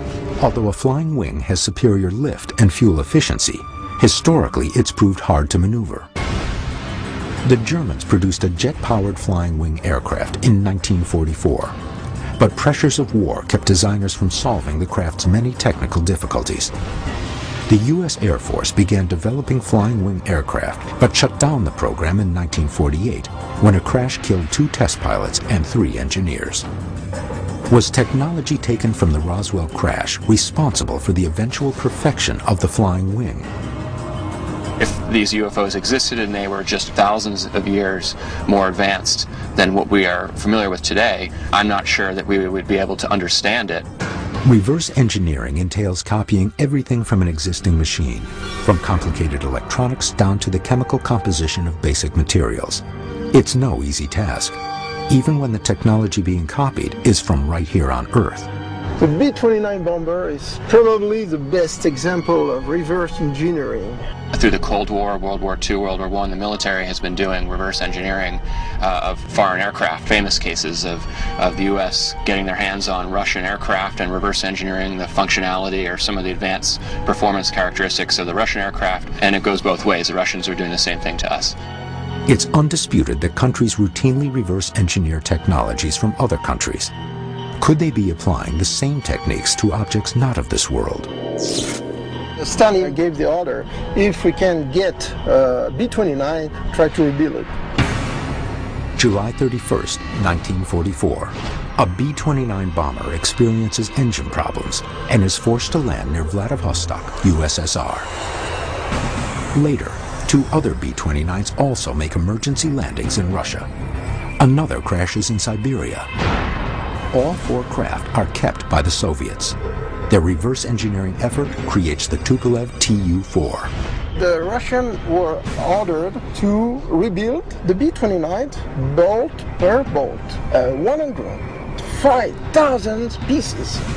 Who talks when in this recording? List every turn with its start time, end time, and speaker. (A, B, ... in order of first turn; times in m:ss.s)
0:00.4-0:06.1 A
0:07.4-0:11.8 A
0:12.4-0:16.7 A
0:17.7-0:26.6 A
0:27.7-0:33.5 A
0:34.8-0:43.8 B
0:44.4-0:54.5 A
0:55.1-0:58.5 A
0:59.0-1:04.0 C
1:04.3-1:21.6 B
1:22.3-1:26.9 A
1:27.6-1:31.1 A
1:32.4-1:37.5 C
1:39.0-1:48.1 A
1:49.5-1:53.7 A
1:54.4-1:56.1 A
1:57.1-1:59.6 A
2:00.1-2:03.7 A
2:04.1-2:13.8 C